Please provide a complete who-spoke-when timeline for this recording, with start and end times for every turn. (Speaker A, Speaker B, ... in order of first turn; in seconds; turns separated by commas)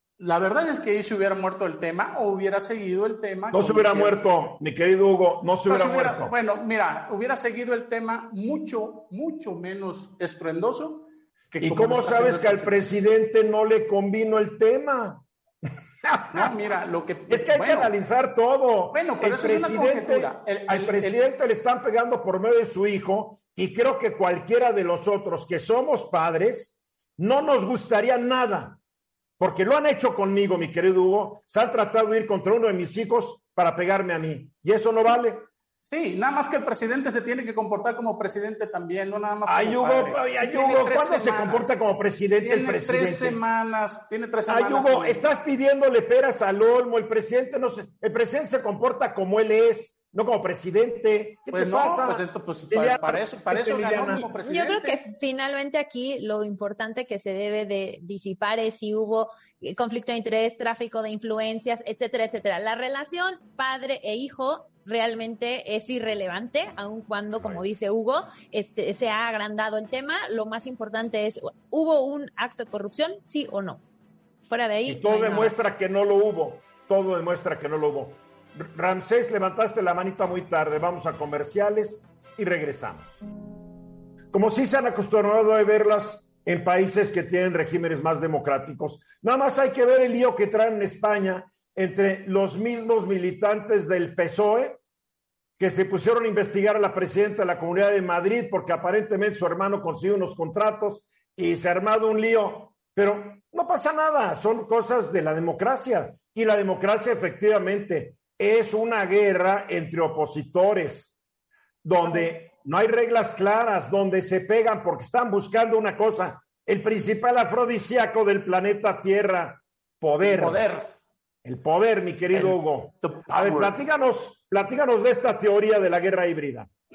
Speaker A: 0.2-4.2, Speaker B: 3.5-6.3, Speaker A: 5.7-12.9, Speaker B: 11.6-15.2, Speaker B: 16.1-16.5, Speaker A: 16.3-17.9, Speaker B: 17.3-28.8, Speaker A: 18.9-21.3, Speaker B: 29.4-35.5, Speaker A: 35.9-41.8, Speaker B: 39.5-43.4, Speaker A: 42.4-45.2, Speaker B: 44.5-54.3, Speaker A: 51.5-55.0, Speaker C: 54.4-73.8, Speaker C: 74.5-75.6, Speaker B: 74.9-83.2, Speaker B: 84.3-94.8, Speaker B: 95.6-111.2, Speaker B: 111.8-120.6, Speaker A: 120.2-120.9, Speaker B: 121.5-126.7, Speaker A: 122.3-123.8